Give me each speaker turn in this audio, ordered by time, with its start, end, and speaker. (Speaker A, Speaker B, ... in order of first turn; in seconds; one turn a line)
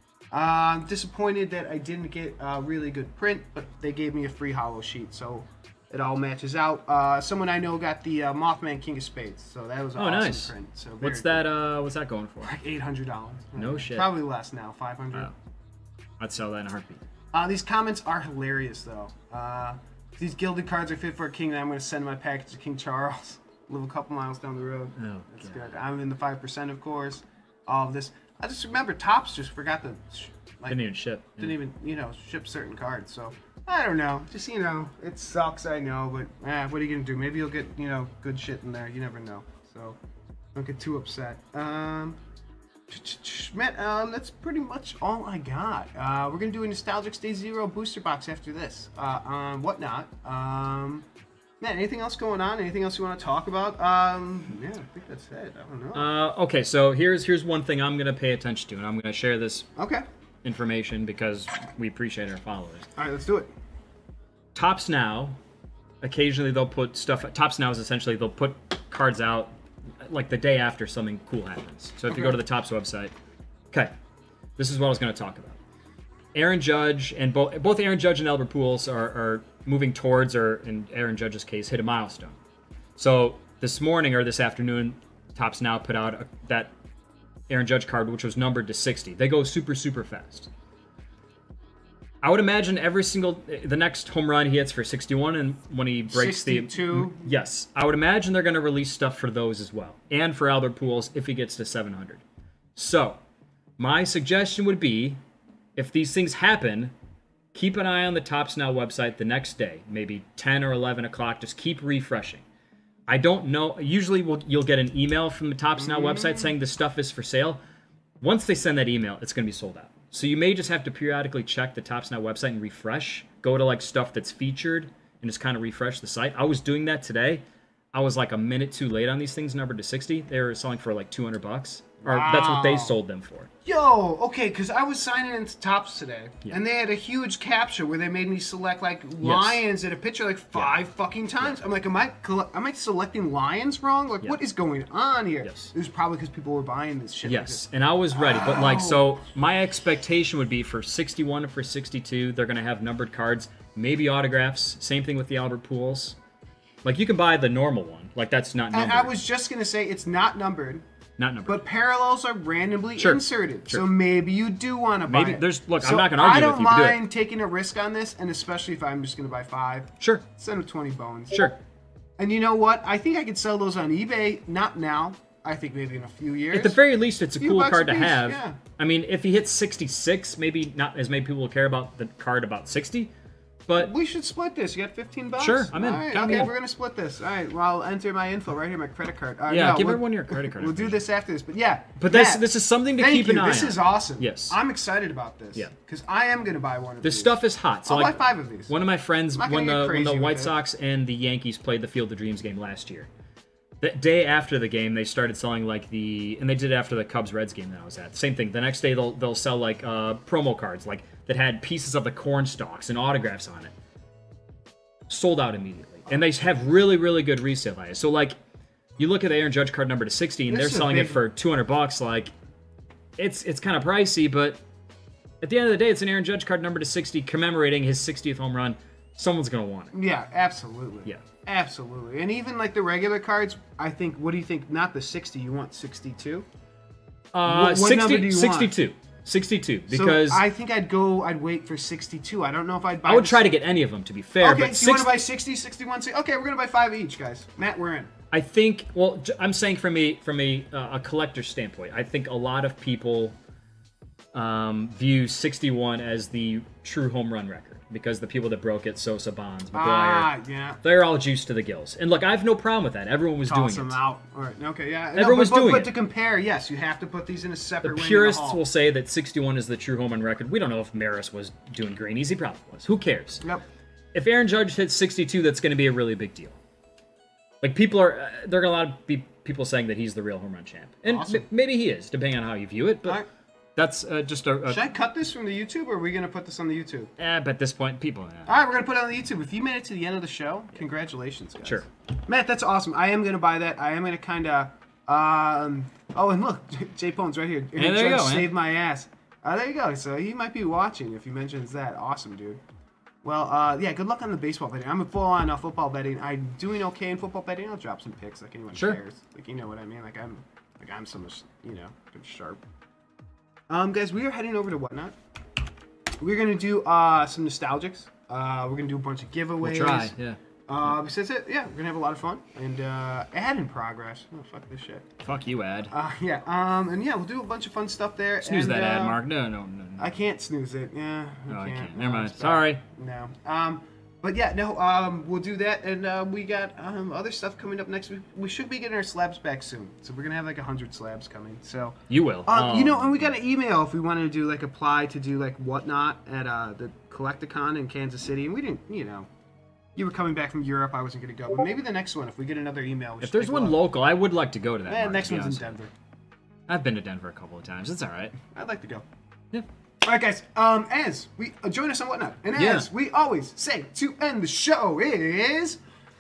Speaker A: 0.3-11.5
Speaker B: 10.0-12.6
Speaker A: 12.4-15.3
Speaker B: 13.6-14.1
Speaker B: 16.2-17.0
Speaker A: 17.3-30.8
Speaker B: 25.0-25.7
Speaker B: 30.7-31.6
Speaker A: 31.4-40.0
Speaker A: 40.5-42.2
Speaker A: 42.9-51.1
Speaker A: 51.6-56.1
Speaker B: 55.9-59.7
Speaker A: 59.8-60.0
Speaker B: 60.4-62.9
Speaker A: 63.0-63.5
Speaker B: 64.5-65.4
Speaker B: 66.0-73.1
Speaker B: 74.6-75.6
Speaker B: 76.3-82.4
Speaker B: 83.0-86.7
Speaker B: 87.5-90.5
Speaker B: 92.2-102.2
Speaker A: 96.1-97.3
Speaker B: 102.8-103.2
Speaker B: 103.8-105.2
Speaker B: 105.8-106.9
Speaker B: 107.5-112.5
Speaker B: 113.1-117.6
Speaker A: 115.8-116.5
Speaker B: 118.2-133.5
Speaker A: 132.1-133.0
Speaker A: 133.7-149.1
Speaker B: 139.2-139.6
Speaker B: 145.4-145.7
Speaker B: 147.2-156.2
Speaker B: 156.8-159.1
Speaker A: 158.7-160.8
Speaker B: 161.2-161.7
Speaker A: 161.5-171.5
Speaker B: 163.0-163.9
Speaker B: 165.1-167.0
Speaker B: 170.0-170.2
Speaker A: 172.2-176.8
Speaker B: 176.5-183.1
Speaker A: 177.4-178.6
Speaker B: 183.7-183.9
Speaker A: 183.8-198.7
Speaker B: 185.4-186.5
Speaker B: 189.5-191.0
Speaker B: 192.0-194.6
Speaker B: 197.0-203.1
Speaker A: 199.3-200.6
Speaker B: 203.8-213.7
Speaker B: 215.1-218.3
Speaker B: 219.0-222.3
Speaker A: 220.5-221.2
Speaker B: 223.2-224.6
Speaker B: 225.4-229.9
Speaker A: 229.9-236.4
Speaker B: 237.3-240.4
Speaker A: 237.4-238.7
Speaker A: 239.9-243.5
Speaker B: 243.1-245.2
Speaker A: 244.4-248.1
Speaker B: 248.3-253.4
Speaker B: 254.3-260.3
Speaker A: 259.7-260.8
Speaker B: 260.8-264.0
Speaker A: 263.5-268.6
Speaker B: 265.1-265.9
Speaker B: 267.8-273.4
Speaker B: 274.1-276.6
Speaker B: 277.6-283.2
Speaker A: 281.1-281.5
Speaker B: 283.8-284.9
Speaker A: 284.7-287.1
Speaker B: 287.2-288.5
Speaker A: 288.5-302.6
Speaker B: 297.8-298.5
Speaker A: 303.2-312.6
Speaker B: 308.7-309.0
Speaker A: 313.7-315.1
Speaker A: 316.2-320.1
Speaker B: 319.6-320.4
Speaker A: 320.7-325.1
Speaker B: 325.2-325.9
Speaker A: 325.9-329.2
Speaker B: 328.4-330.2
Speaker A: 330.0-349.3
Speaker B: 331.5-332.8
Speaker B: 342.1-343.3
Speaker A: 350.0-353.8
Speaker B: 353.2-355.8
Speaker A: 354.9-355.9
Speaker B: 356.7-358.4
Speaker A: 358.5-359.1
Speaker A: 360.0-365.8
Speaker B: 362.6-362.9